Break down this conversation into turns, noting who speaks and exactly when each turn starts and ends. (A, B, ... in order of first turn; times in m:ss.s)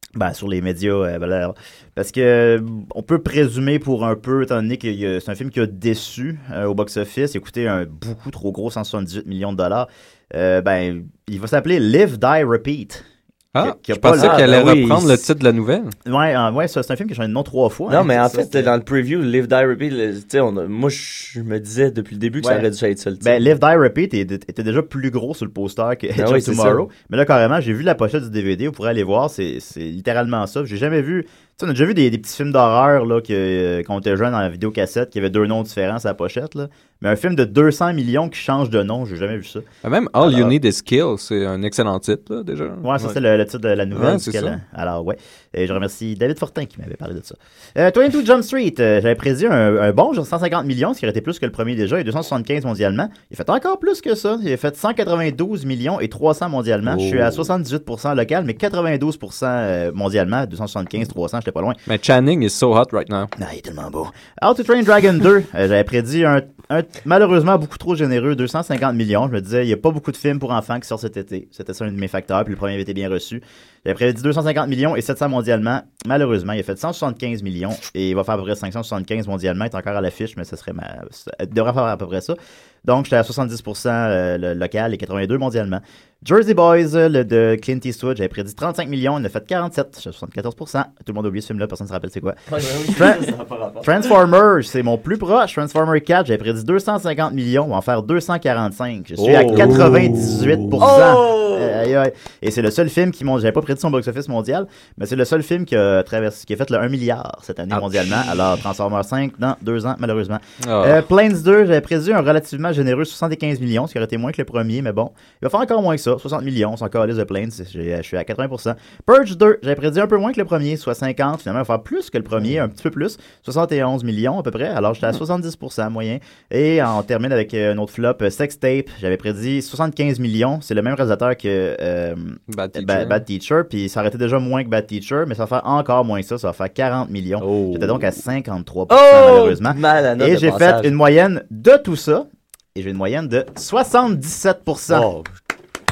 0:00.2-0:13.0 A
0:13.5-0:15.9 B
0:13.6-0:14.7 A
0:14.1-0:15.2 C
0:16.0-0:18.7 A
0:17.9-0:23.4 C
0:22.4-0:22.7 A
0:23.2-0:39.6 A
0:26.2-0:26.8 C
0:39.8-0:43.1 B
0:40.2-0:40.5 A
0:42.8-1:01.8 A
0:43.9-0:44.6 B
0:56.8-0:57.5 C
1:01.9-1:03.3 B
1:03.4-1:33.3 A
1:32.5-1:34.1 C
1:33.8-2:25.1 A
1:39.2-1:41.8 C
1:47.7-1:48.4 C
1:50.6-1:51.0 B
2:12.5-2:13.2 B
2:17.4-2:18.2 C
2:18.9-2:20.9 C
2:24.9-2:25.3 C